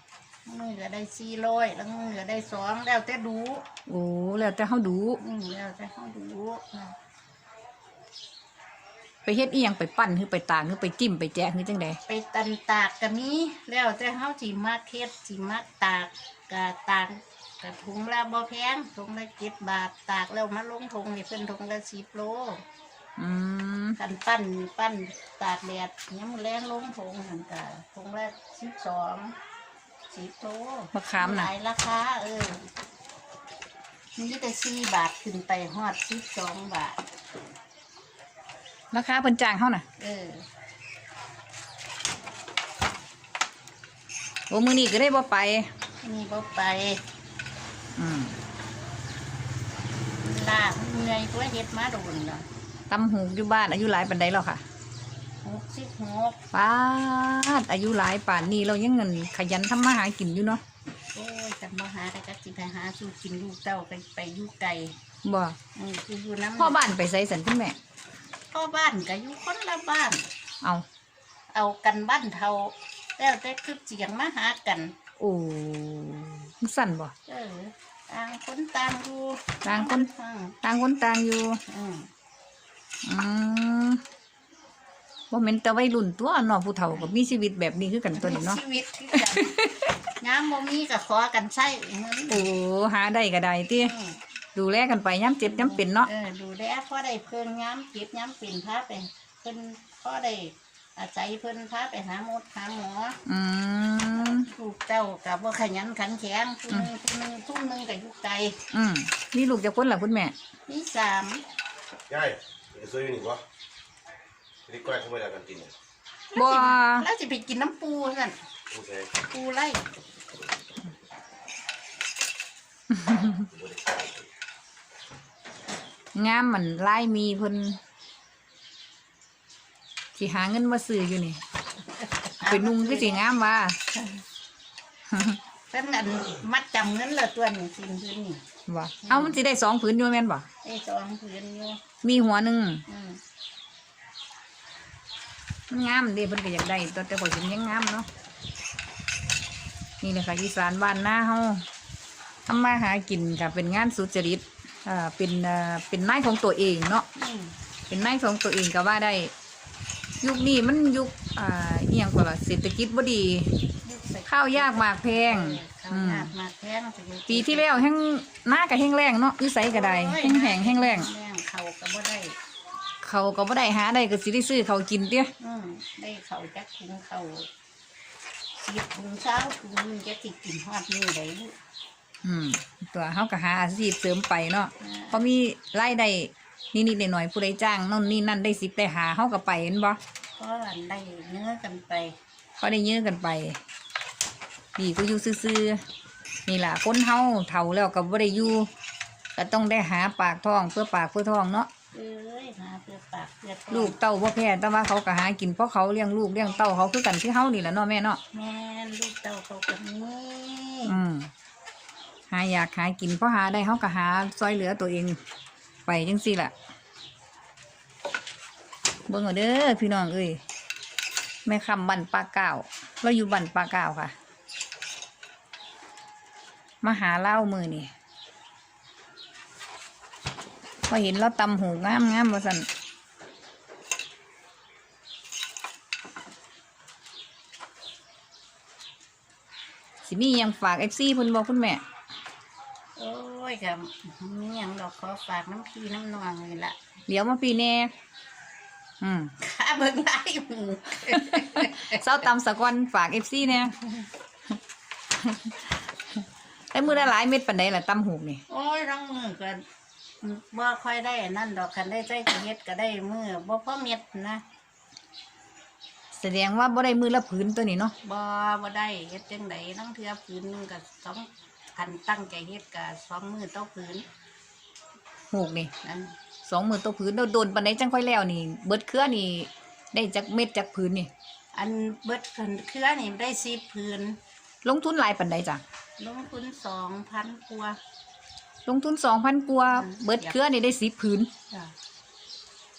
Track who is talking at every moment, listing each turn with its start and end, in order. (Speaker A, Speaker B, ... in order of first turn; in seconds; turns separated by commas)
Speaker A: 0.5-3.6, Speaker B: 3.9-5.2, Speaker A: 5.2-6.9, Speaker B: 9.2-12.0, Speaker A: 12.1-22.6, Speaker B: 23.2-24.0, Speaker A: 24.0-29.4, Speaker A: 30.1-32.7, Speaker B: 30.9-31.5, Speaker A: 34.2-37.0, Speaker B: 38.9-39.8, Speaker A: 40.0-40.4, Speaker B: 44.5-45.7, Speaker A: 46.0-47.0, Speaker B: 48.0-48.4, Speaker A: 50.2-52.5, Speaker B: 52.9-54.6, Speaker A: 55.4-56.4, Speaker B: 56.5-60.6, Speaker A: 61.1-65.0, Speaker B: 65.2-65.6, Speaker A: 65.8-66.8, Speaker B: 66.6-67.8, Speaker A: 68.5-70.3, Speaker A: 71.5-74.9, Speaker B: 75.2-77.1, Speaker A: 77.2-80.5, Speaker B: 79.6-80.1, Speaker B: 80.6-81.6, Speaker A: 81.7-82.1, Speaker B: 83.0-84.0, Speaker B: 85.3-88.6, Speaker A: 88.1-89.5, Speaker B: 89.1-89.9, Speaker A: 90.2-92.5, Speaker B: 92.3-93.9, Speaker A: 93.8-94.2, Speaker B: 94.5-96.1, Speaker A: 95.4-103.2, Speaker B: 103.2-104.5, Speaker A: 104.2-108.6, Speaker B: 108.7-110.3, Speaker A: 110.7-111.4, Speaker C: 112.1-113.4, Speaker C: 114.7-115.7, Speaker A: 116.3-118.4, Speaker B: 116.3-117.1, Speaker A: 119.3-119.8, Speaker B: 122.9-123.5, Speaker B: 126.1-127.8, Speaker B: 130.2-131.4, Speaker A: 132.4-133.2, Speaker B: 132.4-133.8, Speaker A: 133.9-134.2, Speaker B: 135.1-135.4, Speaker A: 135.7-138.4, Speaker B: 138.7-140.5, Speaker A: 139.0-139.4, Speaker A: 140.6-141.8, Speaker B: 142.0-142.8, Speaker A: 142.9-143.2, Speaker B: 145.7-148.1, Speaker B: 150.0-151.6, Speaker B: 152.5-157.0, Speaker A: 157.1-157.6, Speaker B: 157.9-159.3, Speaker B: 160.2-163.5, Speaker A: 163.8-167.9, Speaker B: 164.3-166.3, Speaker B: 167.3-171.1, Speaker A: 169.7-172.3, Speaker B: 173.0-175.3, Speaker A: 175.4-177.5, Speaker A: 178.6-181.5, Speaker B: 182.2-190.0, Speaker A: 184.8-185.2, Speaker A: 190.4-192.1, Speaker B: 192.6-193.6, Speaker B: 194.8-195.8, Speaker B: 196.5-198.7, Speaker B: 199.3-201.7, Speaker A: 201.9-203.9, Speaker B: 203.7-208.2, Speaker A: 206.4-206.7, Speaker A: 208.3-211.0, Speaker B: 210.9-211.3, Speaker B: 212.3-215.2, Speaker B: 215.9-216.5, Speaker B: 219.1-220.4, Speaker B: 221.4-224.1, Speaker B: 226.8-227.9, Speaker B: 230.9-232.7, Speaker B: 240.0-241.8, Speaker A: 242.9-246.8, Speaker B: 247.1-247.9, Speaker B: 249.0-249.3, Speaker A: 249.4-252.0, Speaker B: 251.1-253.7, Speaker B: 255.2-258.4, Speaker A: 258.5-259.6, Speaker A: 260.2-264.4, Speaker B: 266.1-267.9, Speaker A: 268.0-274.0, Speaker B: 275.3-275.7, Speaker A: 275.8-276.1, Speaker B: 276.4-281.1, Speaker A: 281.5-284.2, Speaker B: 284.6-285.6, Speaker A: 286.0-287.8, Speaker B: 288.6-291.3, Speaker A: 289.7-290.4